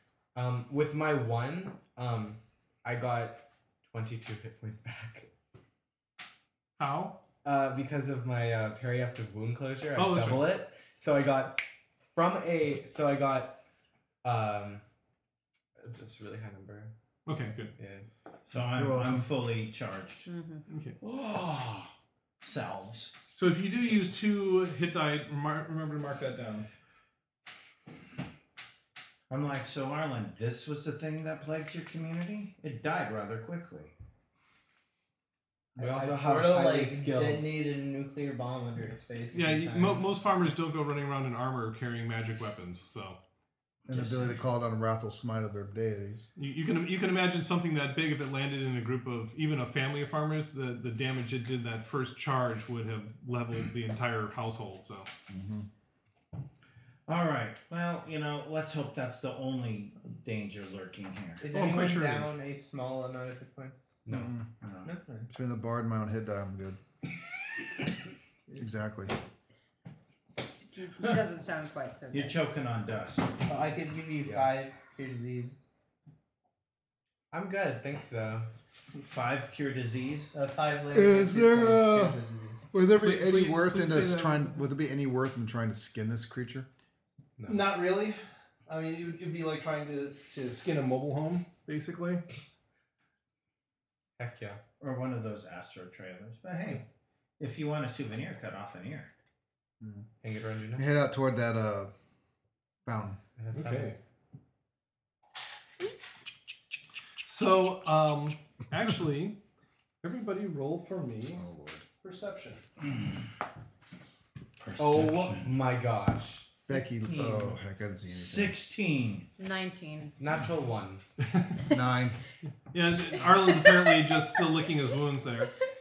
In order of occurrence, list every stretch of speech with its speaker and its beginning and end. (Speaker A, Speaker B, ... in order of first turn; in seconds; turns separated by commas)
Speaker A: 0.3-5.3, Speaker B: 6.8-7.2, Speaker A: 7.4-13.6, Speaker B: 9.9-10.6, Speaker A: 14.2-14.8, Speaker A: 15.8-16.9, Speaker B: 17.2-17.7, Speaker A: 17.8-18.1, Speaker C: 18.5-20.3, Speaker D: 18.6-19.3, Speaker E: 20.2-20.6, Speaker B: 20.7-21.0, Speaker C: 21.0-23.2, Speaker B: 23.3-26.7, Speaker C: 29.3-33.9, Speaker F: 35.8-40.0, Speaker A: 35.8-37.5, Speaker B: 39.3-43.2, Speaker D: 43.9-46.3, Speaker B: 46.4-55.1, Speaker D: 55.3-55.7, Speaker C: 57.1-61.5, Speaker F: 61.4-64.0, Speaker B: 61.5-62.3, Speaker A: 64.0-64.3, Speaker D: 64.1-64.4, Speaker C: 64.6-64.9, Speaker F: 64.8-65.3, Speaker D: 65.3-66.8, Speaker D: 68.6-69.1, Speaker E: 70.7-72.4, Speaker C: 72.1-73.4, Speaker F: 73.4-75.5, Speaker A: 74.2-74.5, Speaker A: 77.3-78.5, Speaker C: 79.0-80.3, Speaker F: 80.3-82.6, Speaker D: 80.9-82.2, Speaker D: 82.7-86.7, Speaker B: 83.0-84.6, Speaker A: 87.4-87.7, Speaker B: 87.5-92.2, Speaker A: 94.2-94.6, Speaker C: 94.8-96.8, Speaker C: 97.4-99.1, Speaker D: 99.8-100.0, Speaker A: 100.2-100.9, Speaker D: 100.8-101.9, Speaker D: 102.8-103.2, Speaker A: 103.4-104.0, Speaker B: 103.5-104.0, Speaker B: 107.2-109.4, Speaker B: 110.0-111.4, Speaker D: 111.3-111.8, Speaker B: 112.0-112.6, Speaker C: 114.6-115.5, Speaker A: 114.8-116.5, Speaker F: 116.6-117.4, Speaker D: 116.7-118.6, Speaker C: 118.0-119.3, Speaker E: 119.4-120.1, Speaker A: 120.2-121.0, Speaker D: 121.7-122.2, Speaker B: 122.7-125.5, Speaker E: 123.2-124.1